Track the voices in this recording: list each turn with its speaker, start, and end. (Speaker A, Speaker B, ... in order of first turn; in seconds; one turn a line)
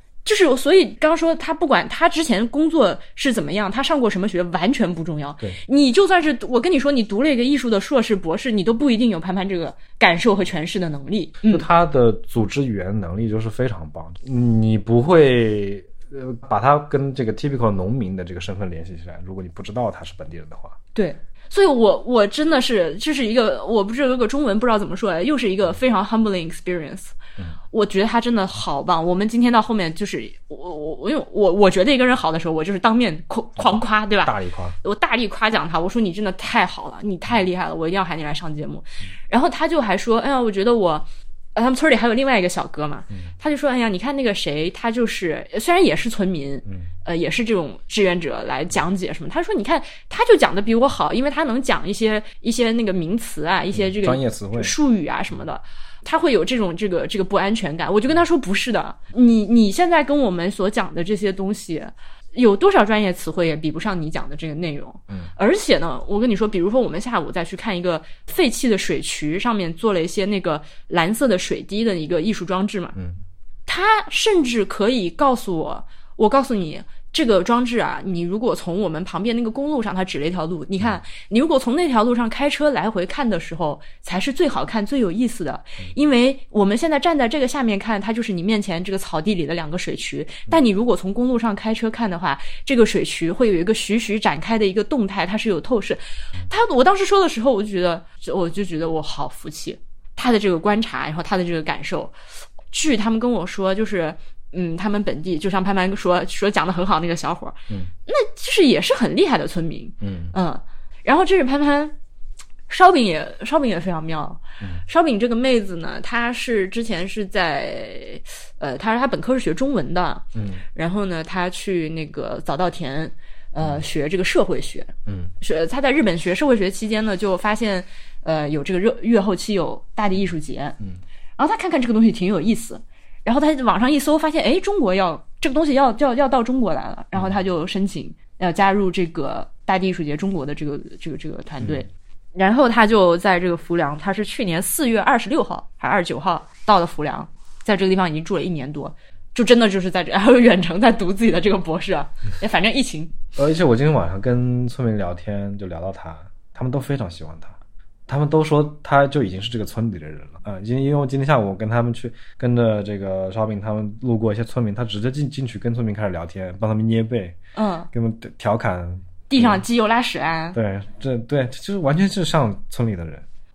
Speaker A: 0.2-11.6
Speaker B: 11.4-20.8
Speaker A: 20.9-27.1
Speaker A: 27.7-73.0
Speaker B: 33.6-34.8
Speaker B: 53.7-54.7
Speaker A: 73.7-102.1
Speaker A: 102.7-111.9
Speaker B: 110.0-110.3
Speaker A: 112.7-130.8
Speaker B: 120.3-120.6
Speaker B: 125.0-125.3
Speaker A: 131.4-153.1
Speaker B: 153.3-157.6
Speaker B: 158.1-167.4
Speaker A: 167.5-167.9
Speaker B: 167.9-169.6
Speaker A: 169.3-170.6
Speaker B: 170.5-173.2